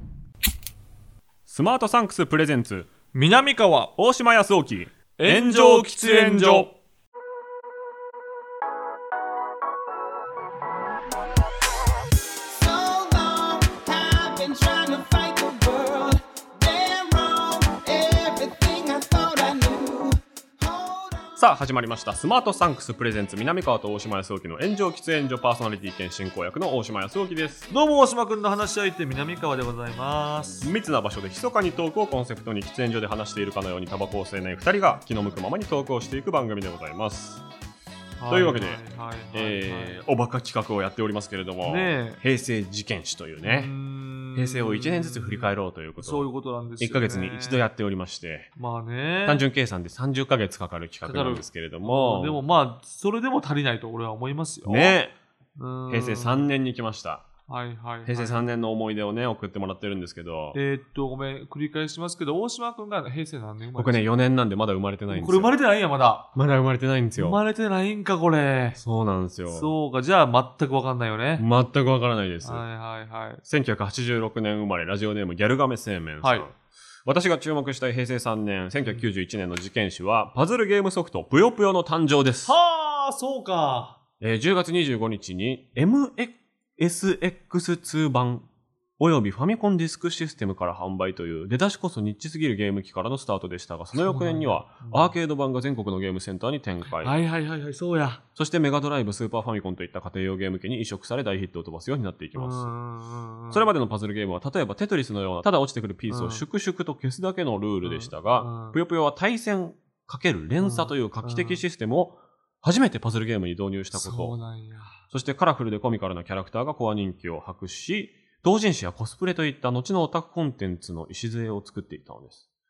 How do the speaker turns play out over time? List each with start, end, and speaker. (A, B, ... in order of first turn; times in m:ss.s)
0:01.4-0:02.9 A
0:03.1-0:03.9 B
0:04.0-0:06.7 A
0:05.2-0:06.7 B
0:12.6-0:21.2 C
0:21.4-0:27.7 A
0:27.7-0:30.7 B
0:30.6-0:37.4 A
0:38.2-0:40.0 B
0:38.3-0:38.8 A
0:39.3-0:43.7 A
0:41.6-0:42.2 B
0:43.4-0:47.6 B
0:44.3-0:46.2 A
0:46.8-0:48.5 A
0:48.6-0:49.4 B
0:49.2-0:52.4 A
0:51.0-0:55.0 B
0:54.6-0:55.1 A
0:55.6-0:56.5 B
0:55.9-0:57.2 A
0:57.5-0:58.4 B
0:58.0-1:00.6 A
1:00.5-1:04.0 B
1:03.8-1:05.5 A
1:05.1-1:06.3 B
1:06.3-1:07.4 A
1:07.2-1:08.8 B
1:08.8-1:09.7 A
1:09.5-1:11.4 B
1:11.4-1:12.6 A
1:12.4-1:13.4 B
1:13.4-1:16.5 A
1:16.2-1:16.5 B
1:17.0-1:22.6 A
1:22.4-1:24.0 B
1:24.2-1:28.5 A
1:29.0-1:37.1 A
1:33.9-1:35.1 B
1:37.0-1:38.2 B
1:38.4-1:42.7 A
1:42.3-1:43.7 B
1:43.5-1:54.4 A
1:46.1-1:46.4 B
1:47.8-1:48.8 B
1:50.6-1:51.6 B
1:53.9-1:55.0 B
1:55.1-2:02.4 A